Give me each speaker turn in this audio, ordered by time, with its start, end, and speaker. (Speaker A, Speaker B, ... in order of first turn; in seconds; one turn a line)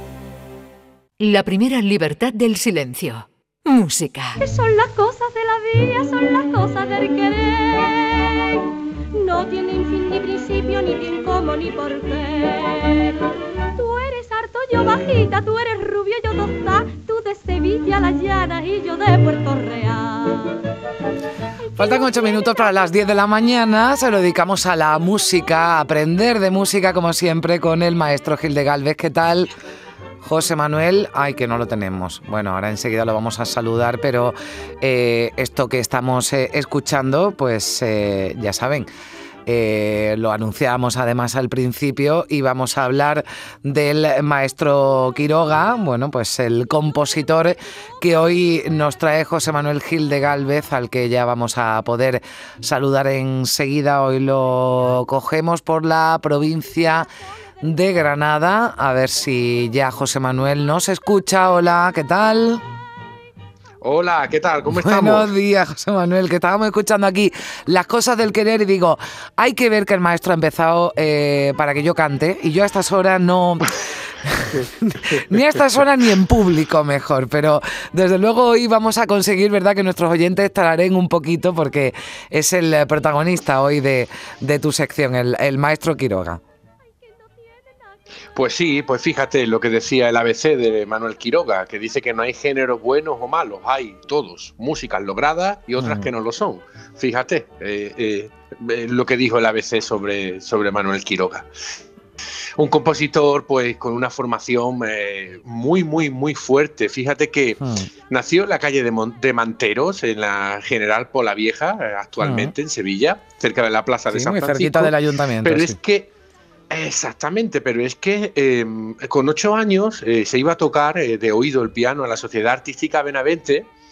Speaker A: 1.2-4.4
Speaker B: 4.4-20.7
Speaker B: 21.7-22.6
Speaker C: 21.8-29.5
Speaker C: 30.2-38.9
Speaker C: 39.5-57.0
Speaker C: 57.6-62.6
Speaker D: 63.8-65.3
Speaker C: 64.7-86.4
Speaker D: 88.3-101.5
Speaker C: 95.8-96.1
Speaker D: 102.6-116.1
Speaker C: 107.6-107.9
Speaker C: 112.2-112.5
Speaker C: 114.1-115.8
Speaker D: 116.7-123.7